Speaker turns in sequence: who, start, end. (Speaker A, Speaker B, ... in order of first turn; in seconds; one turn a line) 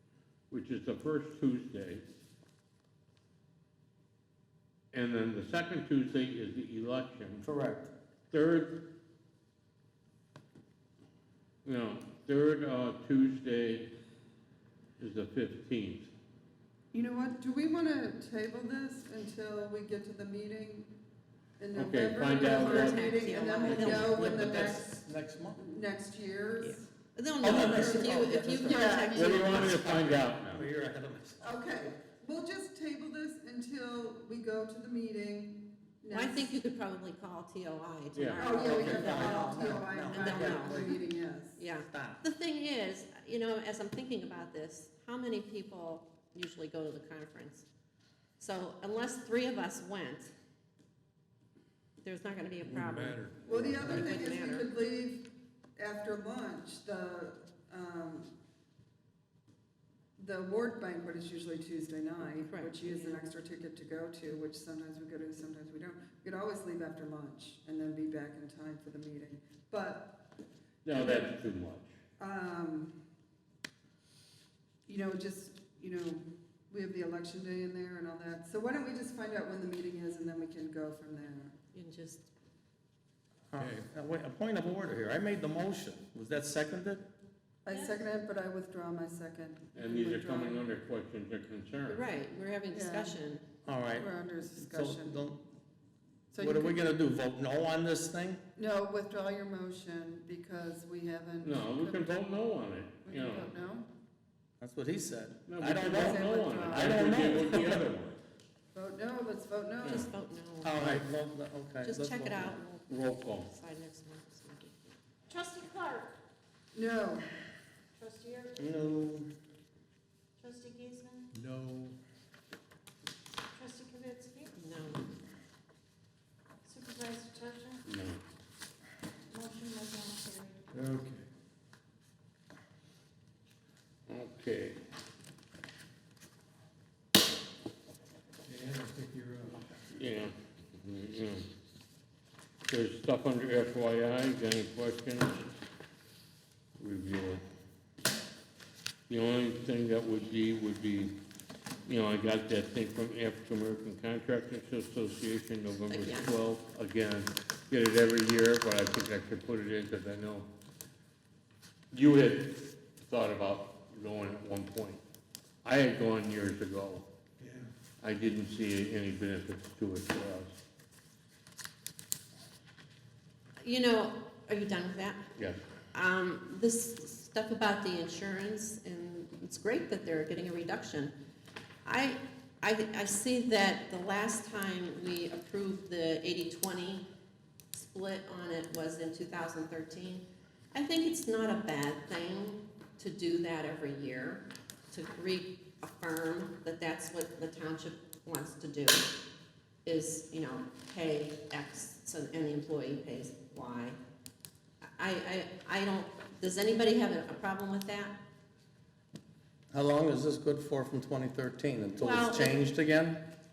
Speaker A: 0.5-2.0
Speaker A: 4.9-7.4
Speaker B: 7.4-7.9
Speaker A: 8.3-8.8
Speaker A: 11.6-13.9
Speaker A: 15.0-16.1
Speaker C: 16.9-20.9
Speaker C: 21.6-24.9
Speaker A: 21.7-24.4
Speaker D: 22.4-24.4
Speaker B: 24.0-25.6
Speaker C: 25.6-26.9
Speaker D: 26.6-29.8
Speaker C: 27.4-29.5
Speaker B: 27.4-31.5
Speaker A: 29.1-30.6
Speaker C: 31.4-36.5
Speaker D: 36.1-41.0
Speaker A: 38.1-38.4
Speaker C: 38.4-41.6
Speaker B: 38.5-41.0
Speaker D: 41.6-47.6
Speaker B: 41.9-42.2
Speaker D: 48.4-50.3
Speaker D: 52.0-54.7
Speaker E: 52.6-54.0
Speaker C: 53.4-58.3
Speaker C: 60.2-70.2
Speaker D: 62.2-63.3
Speaker A: 70.8-71.9
Speaker C: 70.9-71.3
Speaker C: 72.2-72.9
Speaker C: 74.9-81.5
Speaker D: 81.7-82.3
Speaker B: 83.5-87.0
Speaker C: 87.6-90.6
Speaker D: 87.7-88.0
Speaker A: 89.7-92.0
Speaker D: 91.9-93.4
Speaker C: 92.7-93.2
Speaker B: 93.6-95.4
Speaker C: 94.0-95.2
Speaker C: 96.3-96.9
Speaker B: 96.4-98.4
Speaker C: 98.5-102.2
Speaker A: 101.4-103.5
Speaker C: 103.0-103.9
Speaker B: 104.6-107.9
Speaker A: 105.5-108.2
Speaker C: 105.9-107.4
Speaker C: 108.7-110.1
Speaker D: 109.8-110.7
Speaker B: 110.6-112.6
Speaker A: 110.8-111.0
Speaker D: 111.8-115.0
Speaker A: 112.9-113.5
Speaker F: 115.3-116.1
Speaker C: 116.7-117.3
Speaker F: 118.0-118.8
Speaker B: 118.6-119.3
Speaker F: 120.4-121.3
Speaker E: 121.4-121.9
Speaker F: 123.5-124.5
Speaker D: 124.5-125.0
Speaker F: 126.6-127.8
Speaker A: 127.8-128.2
Speaker F: 129.3-130.7
Speaker E: 130.8-131.2
Speaker A: 134.1-134.8
Speaker E: 138.5-139.6
Speaker A: 139.9-141.4
Speaker A: 142.7-145.4
Speaker A: 146.8-147.4
Speaker A: 149.1-151.1
Speaker A: 151.8-160.5
Speaker D: 155.9-156.3
Speaker A: 161.9-165.0
Speaker A: 165.6-167.1
Speaker A: 168.0-170.6
Speaker D: 173.6-175.3
Speaker D: 175.9-181.1
Speaker D: 181.8-187.1
Speaker D: 187.7-199.1
Speaker D: 199.8-204.0
Speaker D: 204.9-208.2
Speaker B: 209.7-213.2
Speaker D: 212.0-212.6